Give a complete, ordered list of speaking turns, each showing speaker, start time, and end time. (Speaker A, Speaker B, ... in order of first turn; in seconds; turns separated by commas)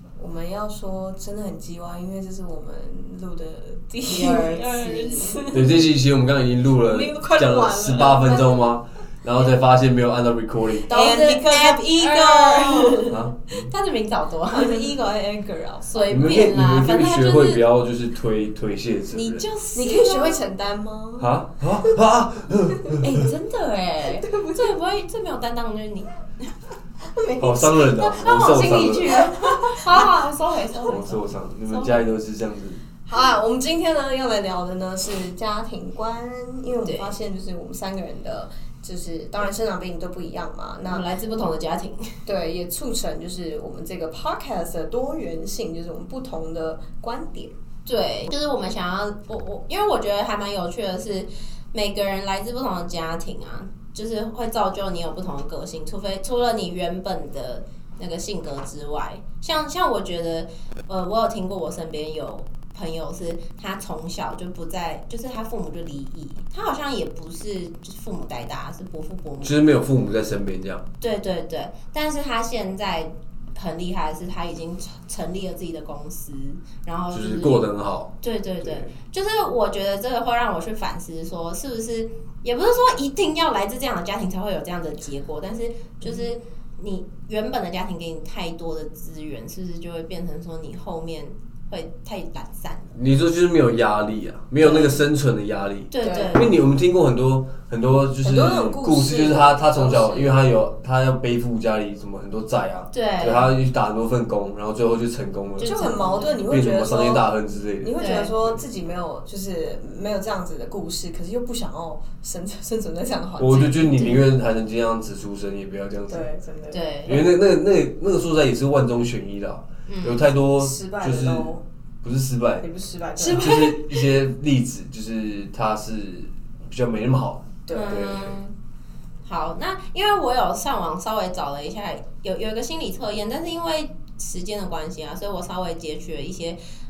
Speaker A: 0.2-5.8, Speaker B: 4.0-5.7, Speaker C: 5.5-10.9, Speaker A: 6.8-8.5, Speaker A: 10.9-13.2, Speaker B: 10.9-14.9, Speaker C: 13.1-13.7, Speaker A: 14.5-16.0, Speaker B: 15.9-17.6, Speaker C: 16.0-19.4, Speaker B: 19.1-20.4, Speaker A: 19.7-22.0, Speaker C: 21.2-23.2, Speaker B: 23.0-26.5, Speaker A: 24.2-24.8, Speaker A: 27.1-28.0, Speaker C: 27.4-29.3, Speaker B: 27.9-31.2, Speaker A: 29.0-31.0, Speaker C: 30.9-32.8, Speaker B: 31.7-32.0, Speaker A: 33.0-41.1, Speaker B: 36.8-37.1, Speaker B: 40.9-42.2, Speaker A: 42.2-47.5, Speaker B: 47.9-69.6, Speaker C: 69.4-70.8, Speaker B: 71.0-77.7, Speaker C: 77.1-78.9, Speaker B: 78.2-93.0, Speaker C: 92.9-105.8, Speaker B: 94.6-95.0, Speaker B: 95.9-96.5, Speaker A: 96.0-96.5, Speaker A: 98.2-100.5, Speaker B: 102.9-103.5, Speaker B: 105.6-106.4, Speaker A: 105.6-107.3, Speaker C: 106.4-108.6, Speaker A: 107.8-114.1, Speaker B: 108.0-108.3, Speaker C: 113.4-116.3, Speaker B: 113.9-114.2, Speaker A: 116.1-116.9, Speaker B: 116.7-117.2, Speaker C: 117.0-121.5, Speaker B: 119.9-120.2, Speaker A: 120.5-121.6, Speaker C: 122.0-122.7, Speaker A: 122.6-123.8, Speaker B: 123.2-123.8, Speaker C: 123.3-128.3, Speaker A: 127.7-128.1, Speaker B: 127.7-128.5, Speaker B: 129.2-136.6